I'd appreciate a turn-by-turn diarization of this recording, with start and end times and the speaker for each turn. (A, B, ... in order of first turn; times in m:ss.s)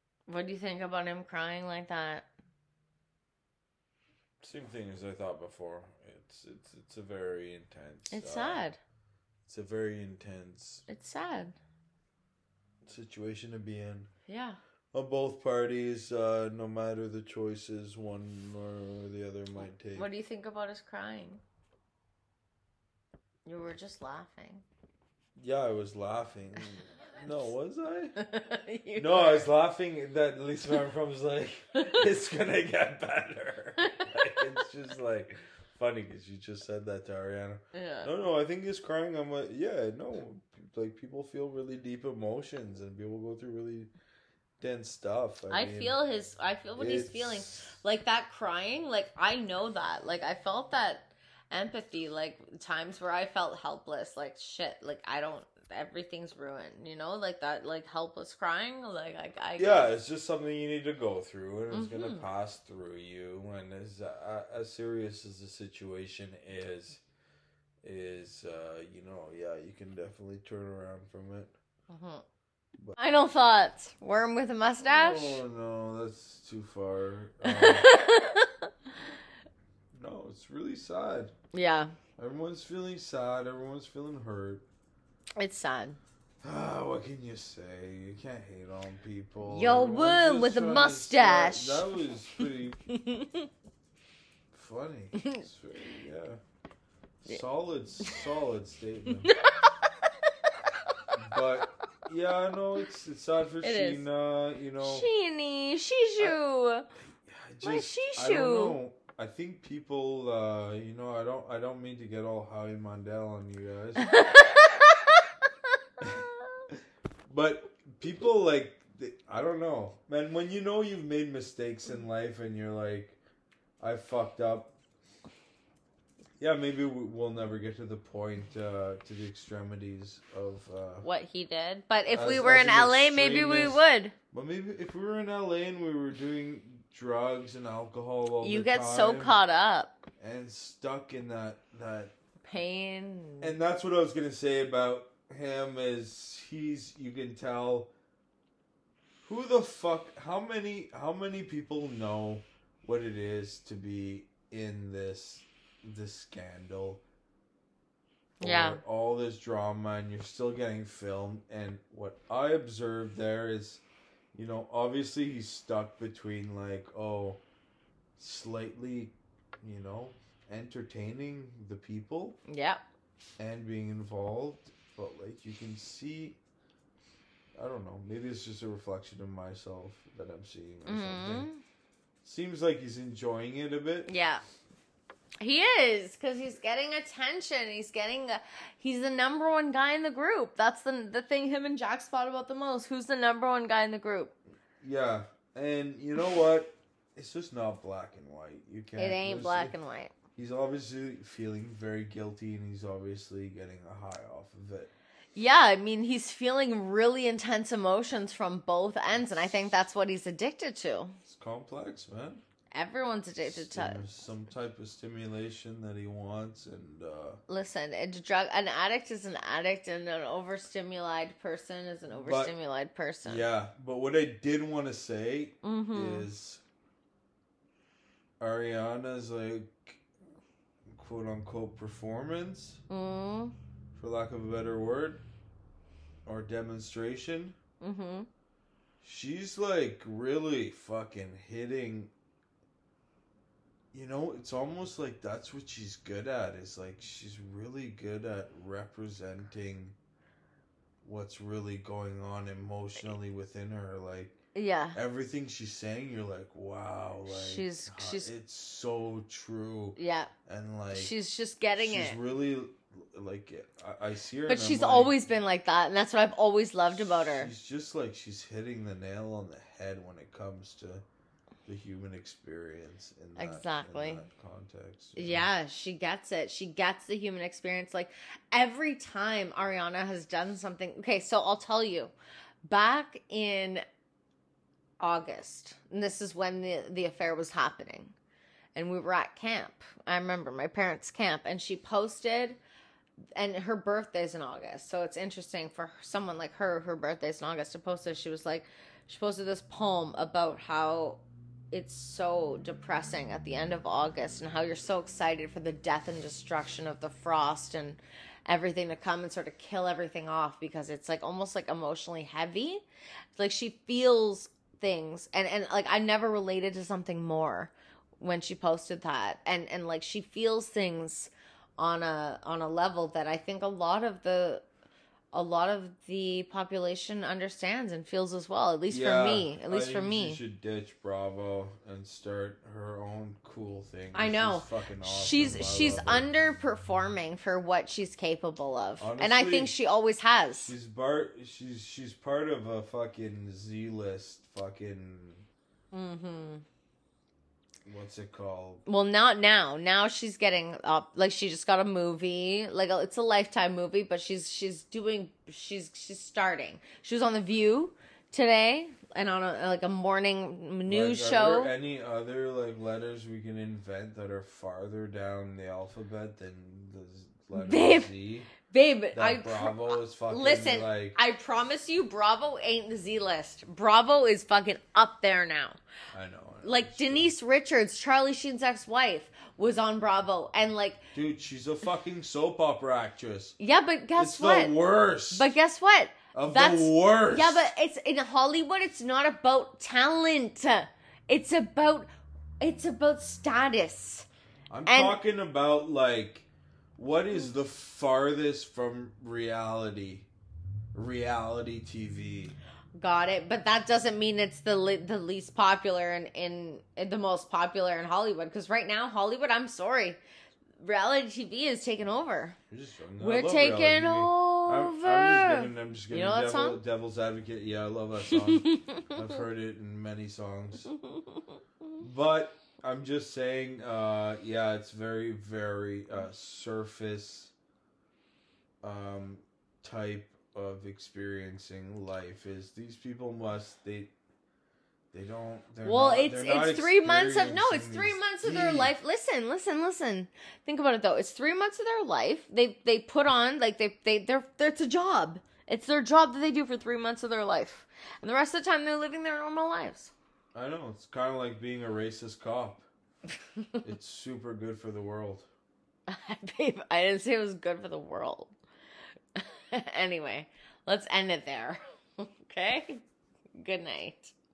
0:00.3-0:02.3 A
0:04.4-0:08.7 B
0:08.1-0:08.8 A
0:09.4-0:10.8 B
0:10.9-0:11.6 A
0:12.8-0:14.1 B
0:14.3-0:14.6 A
0:14.9-0:20.1 B
0:19.9-0:21.4 A
0:23.4-0:24.6 A
0:25.4-0:28.2 B
0:28.2-0:29.5 A
0:29.0-0:43.9 B
0:33.8-0:34.6 A
0:37.7-0:38.1 A
0:44.6-0:46.0 B
0:45.5-0:59.9 A
0:46.8-0:47.7 B
0:59.6-1:07.0 B
1:01.7-1:02.2 A
1:07.8-1:11.5 B
1:11.9-1:12.2 A
1:13.0-1:15.4 A
1:14.8-1:17.9 B
1:17.4-1:18.7 A
1:19.9-1:21.3 B
1:21.5-1:22.0 A
1:22.2-1:24.6 B
1:25.4-1:26.0 A
1:26.4-1:32.9 B
1:29.4-1:32.0 A
1:32.9-1:33.5 A
1:34.5-1:36.4 B
1:35.2-1:35.4 A
1:37.2-1:39.3 B
1:39.2-1:40.3 A
1:41.1-1:45.1 B
1:43.6-1:44.0 A
1:44.8-1:46.9 A
1:47.2-1:54.2 B
1:47.6-1:48.8 A
1:54.0-1:55.3 A
1:56.0-1:56.6 A
1:56.0-1:56.7 B
1:57.3-2:03.2 B
2:03.8-2:04.7 B
2:06.4-2:11.0 B
2:11.0-2:14.1 A
2:12.1-2:19.4 B
2:18.4-2:20.0 A
2:20.2-2:22.1 B
2:22.4-2:23.6 A
2:23.4-2:27.9 B
2:29.2-2:37.0 B
2:38.4-2:38.8 A
2:38.4-2:43.8 B
2:44.3-2:47.4 B
2:48.2-2:52.4 B
2:52.5-2:52.8 A
2:53.4-2:56.4 B
2:57.5-3:01.5 B
3:00.8-3:01.6 A
3:02.2-3:04.1 B
3:04.0-3:04.4 A
3:05.4-3:14.3 A
3:14.8-3:19.7 B
3:19.0-3:20.1 A
3:20.3-3:24.9 B
3:25.4-3:31.2 A
3:29.1-3:29.6 B
3:31.3-3:32.4 B
3:32.7-3:34.0 A
3:33.4-3:37.4 B
3:37.5-3:43.5 A
3:42.2-3:42.5 B
3:43.2-3:46.6 B
3:45.6-3:46.3 A
3:48.4-3:50.0 B
3:50.9-3:52.8 B
3:52.9-3:53.5 A
3:53.9-3:55.2 B
3:56.2-3:57.6 B
3:57.8-3:58.3 A
3:59.0-4:02.1 B
4:03.9-4:09.9 B
4:11.0-4:14.4 B
4:14.5-4:15.0 A
4:14.9-4:21.1 B
4:17.3-4:18.3 A
4:20.0-4:20.3 A
4:20.9-4:22.2 A
4:21.8-4:25.2 B
4:24.5-4:27.5 A
4:26.9-4:31.0 B
4:31.6-4:35.5 B
4:33.4-4:34.2 A
4:35.2-4:42.1 A
4:42.6-4:43.8 A
4:45.0-4:48.1 A
4:48.7-4:52.6 A
4:53.4-5:01.2 A
5:01.7-5:12.8 A
5:13.4-5:24.6 A
5:25.3-5:30.4 A
5:28.9-5:36.3 B
5:34.1-5:40.7 A
5:39.0-5:39.8 B
5:40.6-5:45.5 B
5:45.9-5:46.6 A
5:47.8-5:48.8 B
5:48.8-6:01.7 A
6:00.9-6:08.5 B
6:07.5-6:15.8 A
6:09.1-6:11.2 B
6:16.1-6:17.3 B
6:16.6-6:21.0 A
6:21.1-6:23.5 B
6:23.6-6:24.7 A
6:24.2-6:25.5 B
6:25.3-6:32.1 A
6:26.3-6:27.7 B
6:32.6-6:34.3 A
6:34.7-6:40.3 B
6:34.8-6:35.2 A
6:40.9-6:42.6 B
6:43.0-6:50.2 A
6:50.8-6:52.6 A
6:52.7-7:00.9 B
6:53.2-6:56.8 A
6:58.2-6:59.3 A
7:00.9-7:01.9 A
7:02.0-7:07.5 B
7:08.8-7:14.1 B
7:15.1-7:18.9 B
7:15.8-7:30.1 A
7:30.5-7:32.8 B
7:33.8-7:35.5 B
7:36.1-7:38.5 A
7:39.3-7:43.0 A
7:43.6-7:44.3 A